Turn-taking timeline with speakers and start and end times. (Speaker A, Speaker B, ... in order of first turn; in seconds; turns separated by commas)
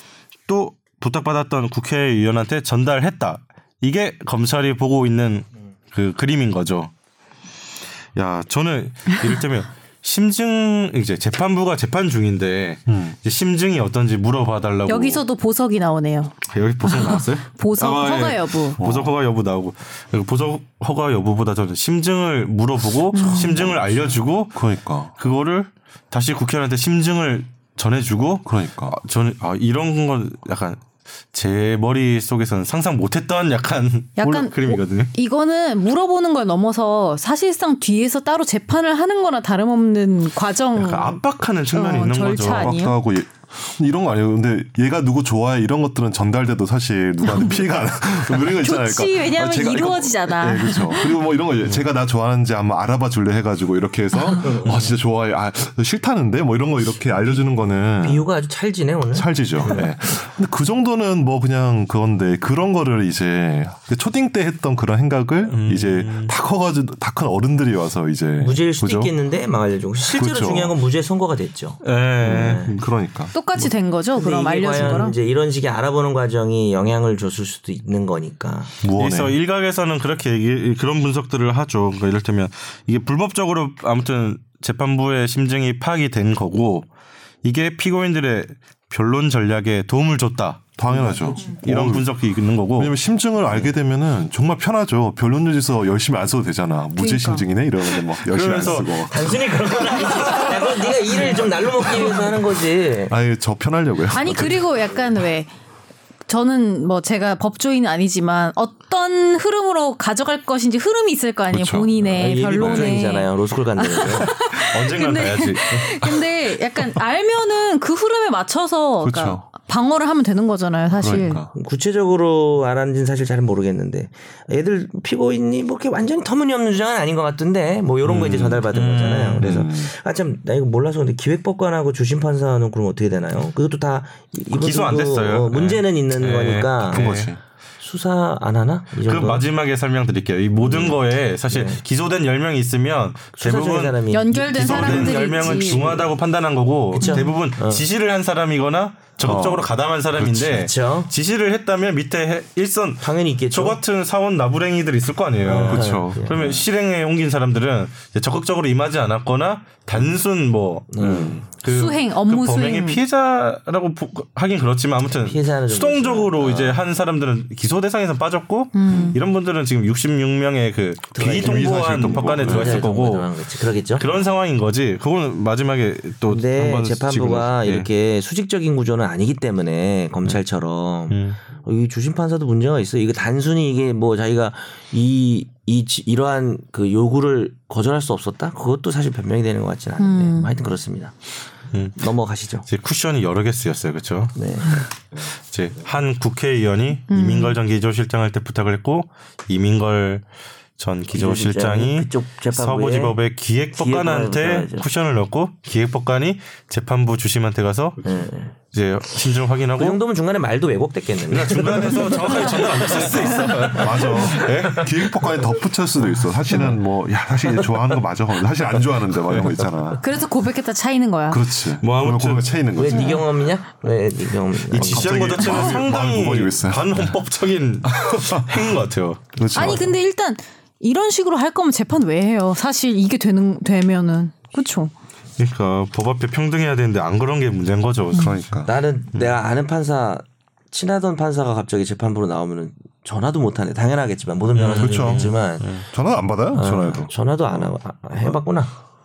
Speaker A: 0.5-6.9, Speaker A: 8.2-15.2, Speaker B: 12.9-13.2, Speaker C: 14.9-18.8, Speaker A: 16.5-24.6, Speaker B: 18.8-19.1, Speaker C: 23.1-23.6, Speaker B: 23.3-25.1, Speaker A: 25.2-35.1, Speaker B: 28.4-29.0, Speaker C: 34.2-41.2, Speaker A: 40.8-42.7, Speaker C: 41.7-43.0, Speaker B: 42.5-58.2, Speaker C: 47.2-47.5, Speaker C: 48.4-51.2, Speaker D: 54.4-54.9, Speaker D: 58.0-59.9, Speaker B: 59.1-69.1, Speaker A: 65.5-66.3, Speaker D: 68.4-72.7, Speaker B: 70.0-70.7, Speaker A: 71.8-72.8, Speaker B: 72.2-73.7, Speaker C: 73.3-75.1, Speaker D: 74.2-78.8, Speaker B: 78.8-79.3, Speaker A: 78.9-86.9, Speaker A: 87.4-90.8, Speaker B: 90.8-92.1, Speaker D: 90.9-91.4, Speaker A: 91.5-92.9, Speaker B: 92.8-99.4, Speaker C: 97.0-97.5, Speaker A: 98.2-99.3, Speaker D: 99.1-103.1, Speaker B: 103.1-104.7, Speaker C: 104.1-105.5, Speaker C: 106.3-121.4, Speaker B: 111.5-111.9, Speaker D: 112.0-114.3, Speaker B: 112.6-112.9, Speaker A: 114.5-116.2, Speaker B: 119.0-119.4, Speaker B: 121.0-121.5, Speaker D: 121.5-137.1, Speaker A: 128.0-129.6, Speaker B: 129.4-129.9, Speaker A: 134.5-137.3, Speaker B: 136.9-137.4, Speaker D: 137.8-139.4, Speaker A: 139.0-173.3, Speaker D: 140.6-141.0, Speaker D: 141.5-141.8, Speaker D: 143.4-146.1, Speaker C: 144.1-145.8, Speaker D: 146.9-147.8, Speaker C: 147.0-147.3, Speaker B: 149.2-149.7, Speaker D: 150.3-151.1, Speaker D: 153.0-153.8, Speaker D: 155.4-156.6, Speaker B: 155.6-156.6, Speaker D: 160.9-161.4, Speaker B: 161.0-161.4, Speaker C: 161.7-163.0, Speaker D: 165.2-166.8, Speaker C: 168.7-169.2, Speaker B: 168.9-169.1, Speaker D: 171.1-174.1, Speaker B: 171.2-172.9, Speaker A: 173.9-177.9, Speaker D: 176.3-191.1, Speaker A: 181.1-181.4, Speaker C: 190.0-190.5, Speaker A: 191.7-192.0, Speaker D: 192.0-192.7, Speaker A: 192.6-200.2, Speaker D: 194.3-194.9, Speaker C: 197.1-197.6, Speaker A: 200.8-208.1, Speaker D: 201.1-203.2, Speaker D: 203.7-204.8, Speaker D: 208.0-208.5, Speaker A: 208.7-210.0, Speaker D: 209.8-214.8, Speaker A: 211.3-215.1, Speaker B: 213.7-220.2, Speaker A: 219.3-219.5, Speaker C: 220.0-221.4, Speaker B: 221.3-223.2, Speaker A: 221.8-222.5, Speaker D: 222.8-225.7, Speaker C: 222.9-223.2, Speaker A: 224.7-229.3, Speaker B: 224.8-227.1, Speaker B: 227.8-228.6, Speaker B: 229.3-229.9, Speaker C: 229.5-234.9, Speaker A: 235.4-238.4, Speaker B: 238.1-238.7, Speaker D: 238.6-245.8, Speaker A: 244.5-245.8, Speaker B: 244.6-247.7, Speaker D: 246.5-248.7